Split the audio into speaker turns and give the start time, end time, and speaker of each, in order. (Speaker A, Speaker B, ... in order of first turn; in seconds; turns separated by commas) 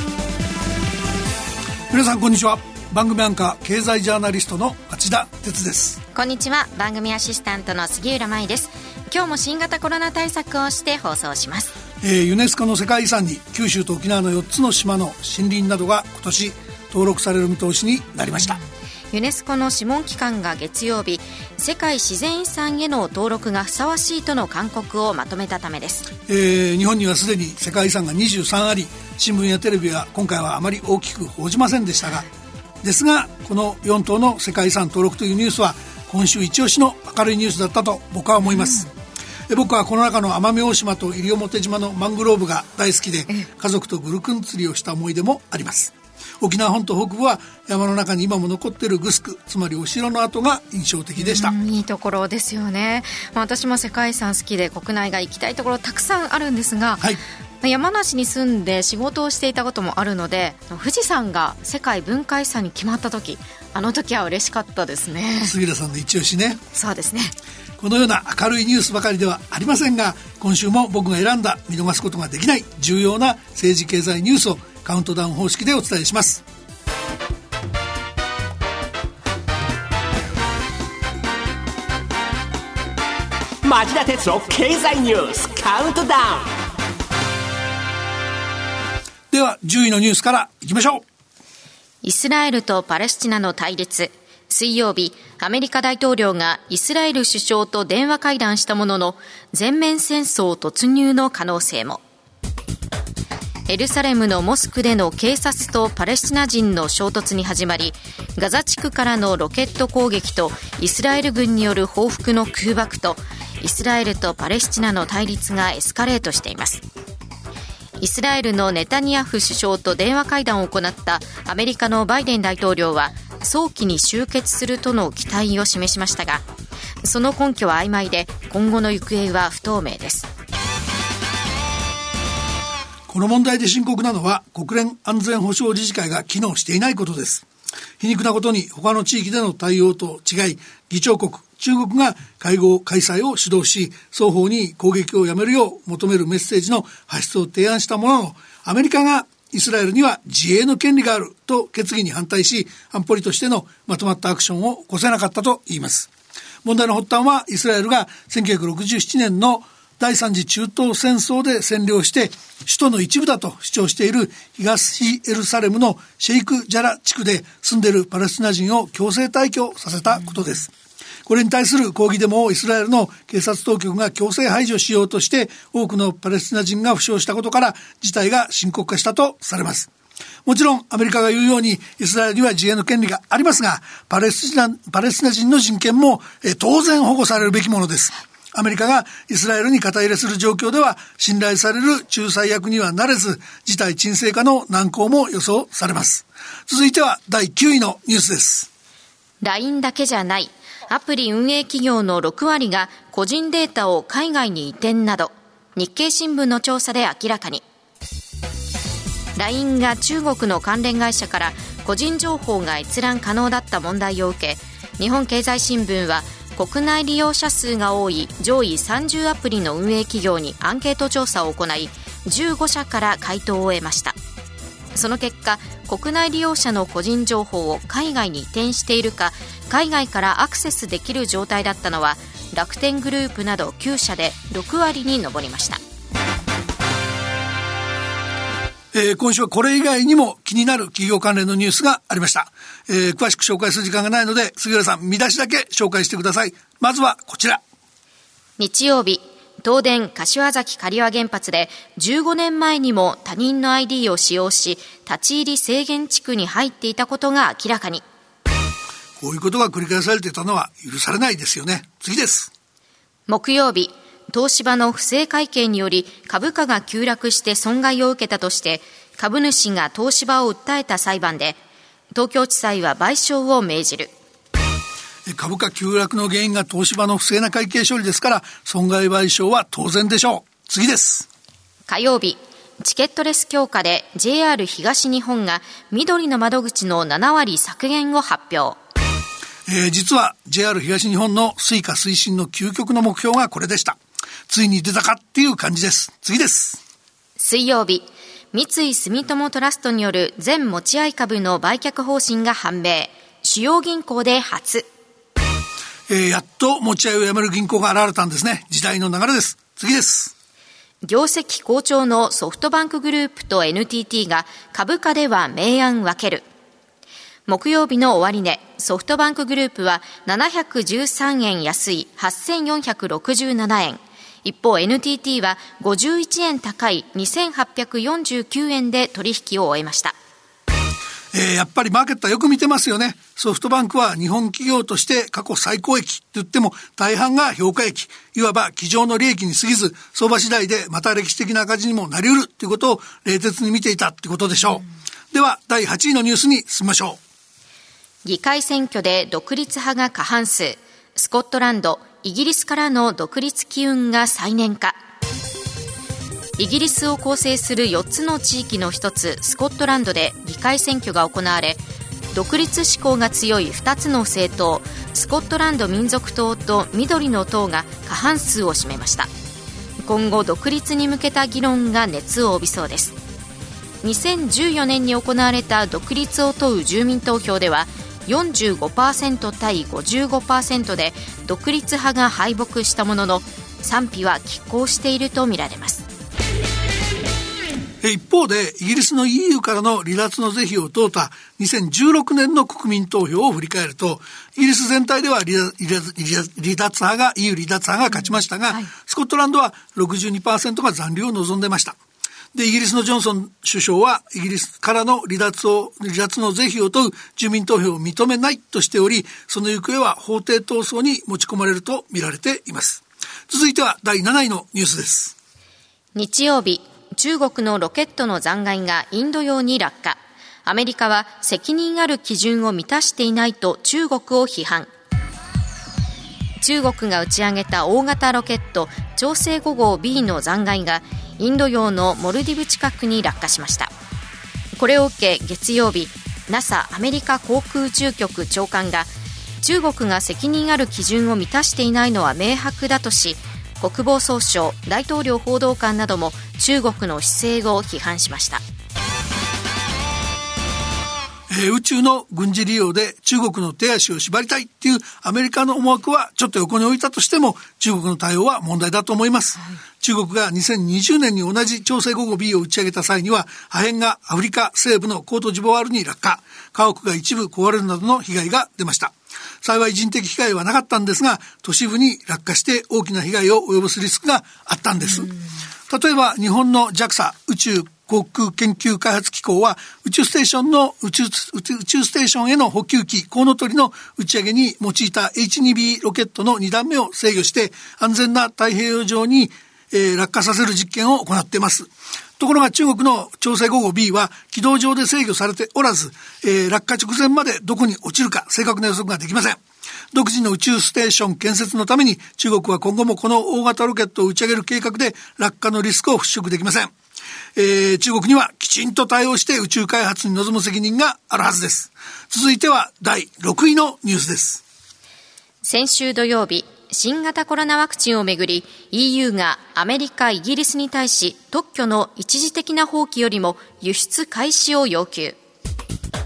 Speaker A: 1.9-6.0, Speaker B: 6.1-11.7, Speaker A: 12.0-18.6, Speaker B: 19.1-26.1, Speaker A: 26.3-32.2, Speaker A: 32.8-38.9, Speaker A: 39.5-51.5, Speaker B: 51.2-65.5, Speaker A: 65.4-66.6, Speaker B: 66.7-67.3, Speaker A: 67.8-76.4, Speaker C: 83.6-86.5, Speaker A: 89.3-91.0, Speaker B: 92.0-102.0, Speaker B: 103.7-116.8, Speaker B: 118.0-126.5, Speaker B: 127.0-130.3, Speaker A: 133.1-137.4, Speaker A: 138.0-156.1, Speaker A: 156.6-170.7, Speaker A: 171.2-179.9, Speaker A: 180.4-198.7, Speaker B: 199.4-207.6, Speaker B: 209.3-224.2, Speaker B: 224.9-235.8, Speaker A: 238.9-247.6, Speaker B: 248.6-258.0, Speaker A: 259.2-262.5, Speaker B: 263.3-271.6, Speaker B: 272.1-274.1, Speaker A: 275.3-281.2, Speaker B: 281.9-288.8, Speaker A: 289.7-296.8, Speaker B: 297.4-304.9, Speaker A: 306.1-310.3, Speaker B: 311.0-316.4, Speaker B: 317.5-330.1, Speaker A: 331.3-347.2, Speaker B: 348.2-355.0, Speaker B: 356.6-361.8, Speaker B: 362.3-369.3, Speaker B: 370.0-373.2, Speaker B: 374.0-386.1, Speaker A: 388.0-402.0, Speaker A: 402.5-415.3, Speaker B: 416.1-424.9, Speaker B: 426.6-433.9, Speaker B: 434.8-439.1, Speaker B: 439.6-448.6, Speaker A: 451.5-475.3, Speaker A: 475.9-499.6, Speaker A: 500.1-506.9, Speaker A: 507.6-514.6, Speaker B: 515.6-525.4